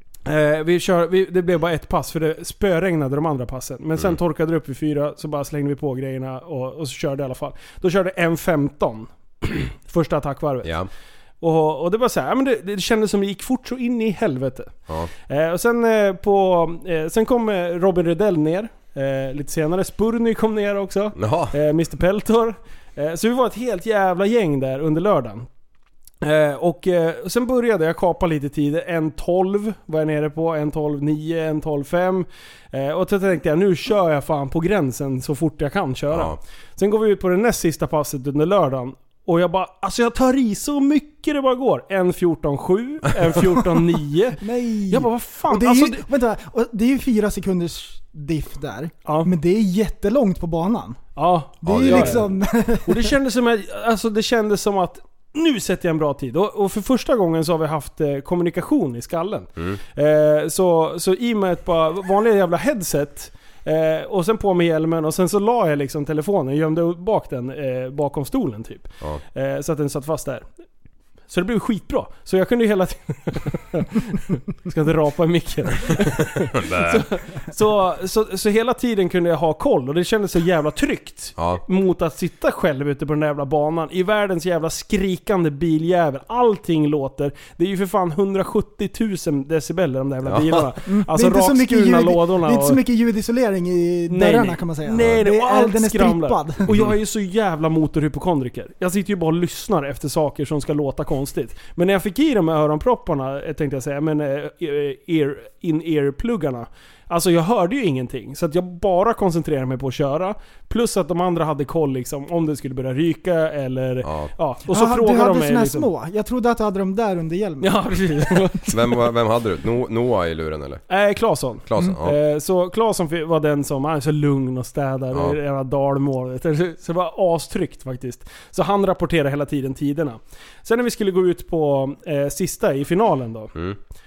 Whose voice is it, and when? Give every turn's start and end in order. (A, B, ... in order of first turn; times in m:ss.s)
0:00.2-0:10.7 A
0:10.6-0:10.9 B
0:11.4-0:14.7 A
0:15.3-0:25.5 A
0:21.2-0:21.5 B
0:26.2-0:46.0 A
0:36.1-0:36.4 B
0:44.4-0:51.0 C
0:49.0-0:49.3 A
0:51.2-0:52.2 A
0:51.6-0:53.1 C
0:51.6-0:52.3 B
0:52.8-1:10.4 A
1:11.3-1:32.8 A
1:16.5-1:17.0 B
1:21.4-1:21.6 B
1:30.2-1:30.7 B
1:30.9-1:36.7 C
1:34.1-1:55.9 A
1:54.0-1:54.3 B
1:54.7-1:57.8 C
1:57.6-1:59.0 A
1:58.7-2:00.8 B
2:00.9-2:13.5 A
2:01.6-2:02.2 B
2:05.1-2:05.4 B